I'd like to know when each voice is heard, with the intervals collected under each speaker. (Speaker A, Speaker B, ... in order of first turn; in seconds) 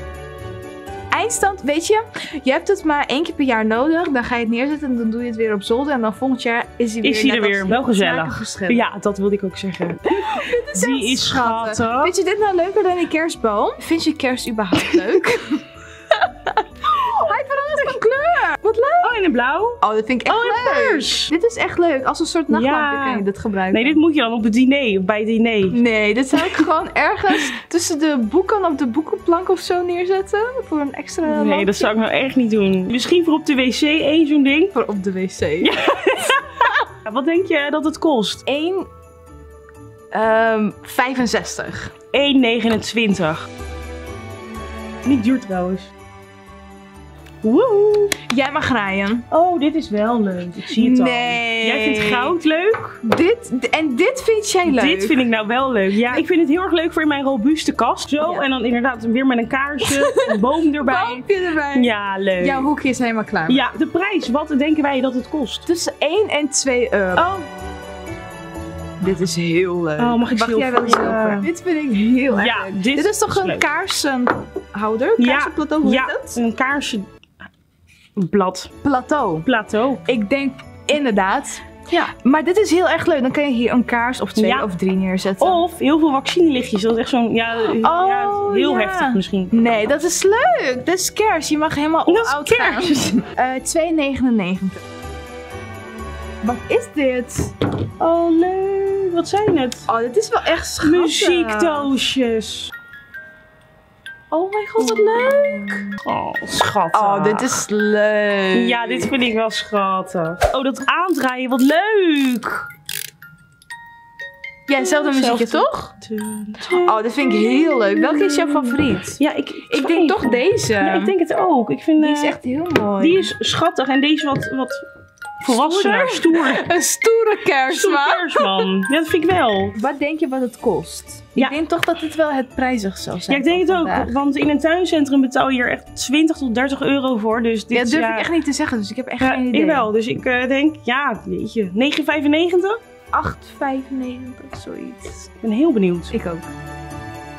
Speaker A: 1.1-8.8, 10.1-19.2, 19.8-24.0, 25.7-31.9, 34.7-36.7, 38.5-38.9, 40.1-41.9, 48.3-49.3, 50.7-52.3, 53.0-55.2, 59.8-63.6, 65.7-67.3, 69.0-76.4, 78.8-79.5, 80.0-85.6, 87.8-94.8, 96.4-97.5, 99.9-101.9, 104.3-105.9, 106.9-109.1, 114.7-115.9, 116.7-121.1, 122.0-123.3, 125.5-128.7, 129.7-134.1, 137.7-139.9, 143.1-145.3, 146.1-146.5
Speaker B: 7.0-12.1, 19.0-21.3, 22.5-25.8, 26.3-26.7, 31.2-34.7, 35.6-38.4, 42.1-43.4, 45.0-45.9, 47.4-48.2, 49.3-53.0, 54.6-62.7, 63.5-65.7, 67.2-67.5, 70.0-71.5, 72.3-73.6, 75.2-77.1, 78.2-78.7, 79.4-80.0, 84.4-84.7, 85.4-89.5, 92.1-93.2, 98.0-99.9, 100.8-102.7, 104.8-107.6, 108.5-112.7, 114.8-122.4, 123.0-124.8, 125.4-126.7, 127.7-129.8, 133.3-138.3, 139.2-142.8, 145.4-146.1